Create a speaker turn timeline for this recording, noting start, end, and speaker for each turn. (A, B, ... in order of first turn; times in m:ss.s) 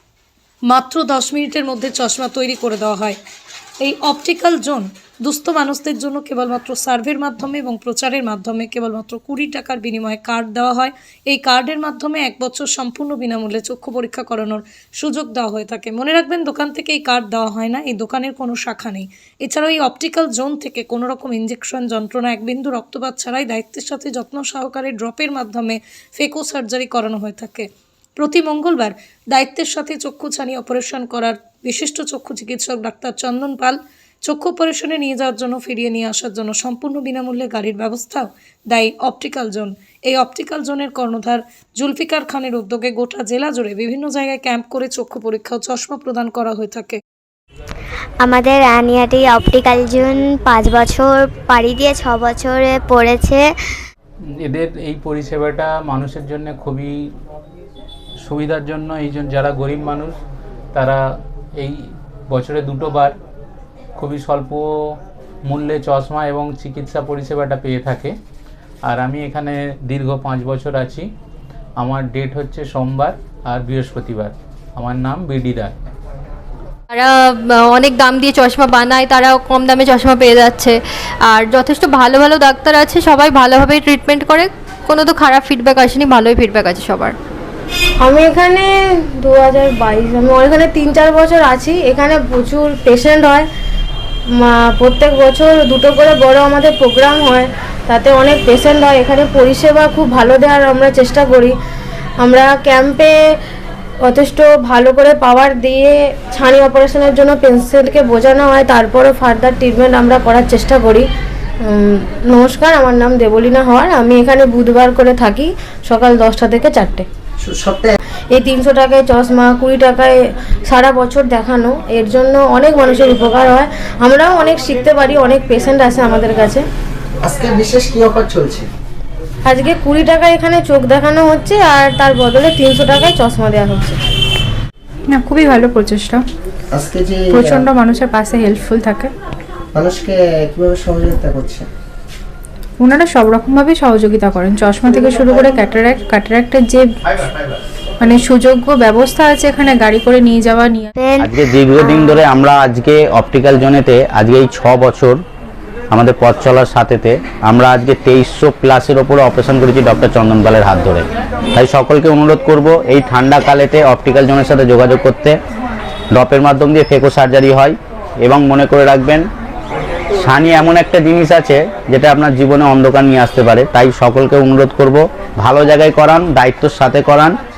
0:00.7-0:03.2 A
0:03.8-0:27.7 A
0:28.2-0:47.0 A
0:48.2-0:53.5 B
0:54.4-0:57.1 C
0:58.2-1:00.2 C
1:00.7-1:01.1 C
1:01.6-1:03.2 C
1:04.0-1:08.2 C
1:08.9-1:11.1 C
1:11.8-1:15.7 C
1:16.9-1:20.8 D
1:21.3-1:27.2 D
1:28.0-1:28.7 E
1:29.2-1:33.4 E
1:34.4-1:41.6 E
1:42.2-1:43.1 E
1:44.0-1:51.1 E
1:51.6-1:57.1 E
1:57.4-1:58.0 F
1:58.3-2:00.1 E
2:00.7-2:06.6 E
2:07.2-2:08.7 F
2:09.5-2:14.0 E
2:15.1-2:16.2 G
2:16.7-2:17.7 F
2:17.3-2:19.1 G
2:19.7-2:21.7 F
2:22.8-2:27.2 G
2:28.0-2:30.9 G
2:31.0-2:32.2 B
2:31.2-2:35.2 H
2:35.9-2:45.4 H
2:46.1-2:49.3 H
2:50.1-2:57.3 H